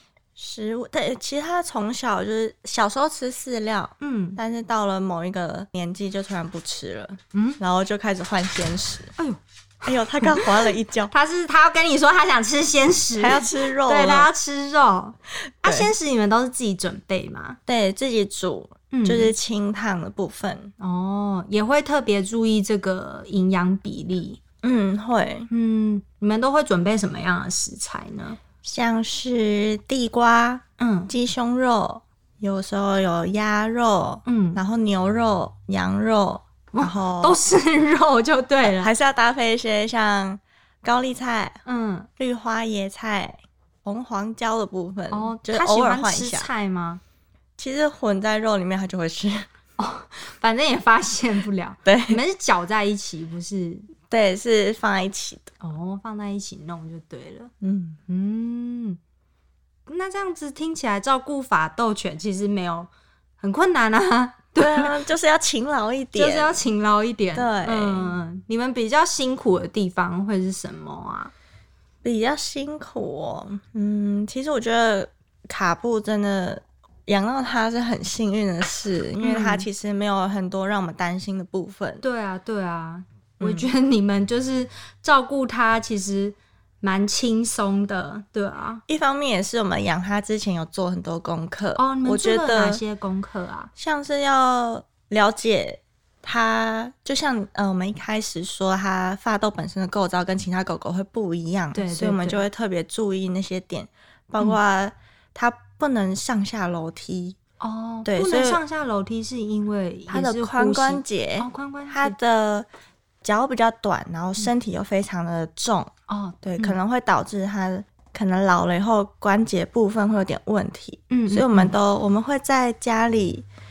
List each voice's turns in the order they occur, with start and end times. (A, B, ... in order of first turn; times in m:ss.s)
0:00.4-0:09.1 A
0:04.0-0:04.4 B
0:07.3-0:07.6 B
0:09.2-0:17.6 B
0:09.8-0:11.1 A
0:13.2-0:14.3 A
0:15.6-0:15.9 A
0:17.7-0:20.7 A
0:18.9-0:19.3 B
0:20.8-0:24.4 B
0:24.6-0:25.5 A
0:25.5-0:28.4 B
0:28.6-0:37.4 A
0:30.8-0:31.1 B
0:34.3-0:34.6 B
0:36.7-0:38.9 B
0:38.6-0:41.6 A
0:41.7-0:42.1 B
0:42.2-0:46.5 A
0:45.1-0:47.0 B
0:47.6-0:49.5 A
0:49.8-0:53.9 B
0:51.9-0:52.2 A
0:54.1-0:55.5 A
0:55.6-0:57.5 B
0:57.6-0:58.0 A
0:58.1-0:59.0 B
0:59.9-1:05.0 B
1:04.6-1:06.6 A
1:06.2-1:11.3 B
1:07.4-1:08.2 A
1:12.0-1:22.0 A
1:19.2-1:19.7 B
1:22.0-1:28.8 B
1:23.4-1:23.7 A
1:28.9-1:32.8 A
1:31.8-1:33.7 B
1:33.8-1:47.4 A
1:41.7-1:42.4 B
1:47.6-1:52.2 B
1:48.0-1:48.6 A
1:50.1-1:52.7 A
1:53.2-1:55.9 A
1:56.1-1:56.8 B
1:56.4-2:03.5 A
2:01.1-2:01.7 B